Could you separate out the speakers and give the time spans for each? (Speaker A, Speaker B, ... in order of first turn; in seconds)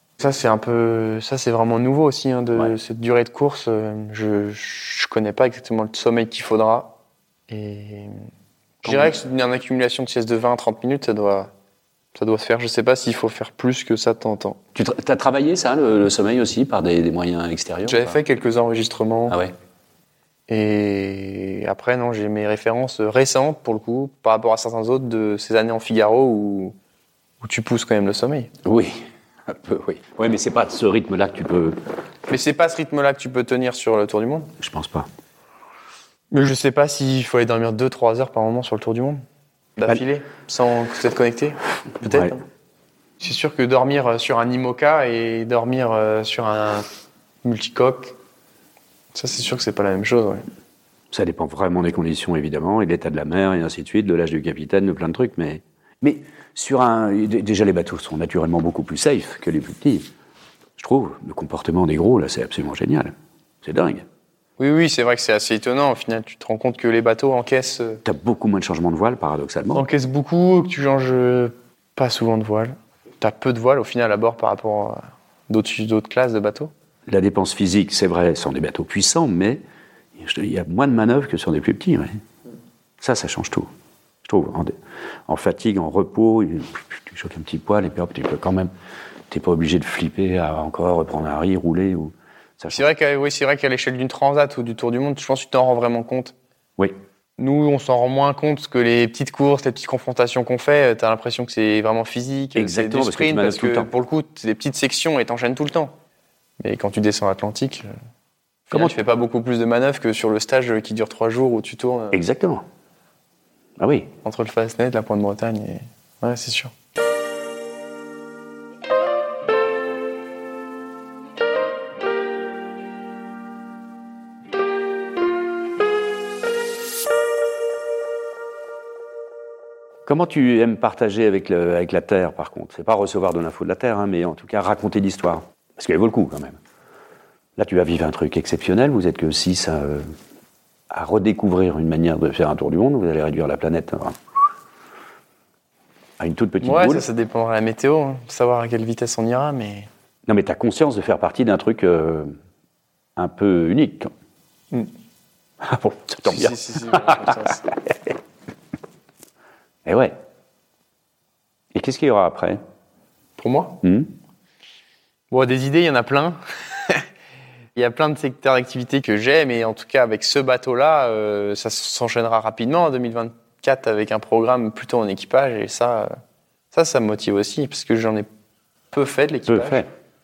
Speaker A: 0.2-7.0, 7.5-8.2, 8.8-11.5, 12.1-14.6, 17.9-19.4, 20.5-26.8, 27.4-28.5, 32.3-34.5, 36.3-39.2, 39.8-42.4, 43.2-46.9, 47.4-48.1, 49.1-50.4, 64.6-68.0, 69.7-76.7, 92.7-96.3, 97.4-105.9, 106.6-107.9, 108.7-112.2, 114.2-116.7, 146.6-149.9, 156.3-157.7, 163.4-163.8, 165.3-167.1, 167.8-176.2, 176.7-178.3, 178.9-179.8
Speaker B: 8.8-9.1, 14.8-18.2, 28.6-31.8, 34.6-35.1, 42.0-42.3, 51.1-60.1, 60.8-64.1, 68.0-69.9, 77.1-79.6, 80.2-82.2, 83.0-83.7, 84.2-84.8, 85.3-88.7, 89.3-92.8, 102.6-103.9, 108.7-109.0, 112.1-112.6, 113.8-114.1, 130.1-136.6, 137.6-140.1, 140.9-144.2, 146.2-147.1, 150.3-152.3, 153.2-154.1, 155.6-158.1, 159.8-160.2, 161.7-162.6, 163.8-164.1, 179.5-179.9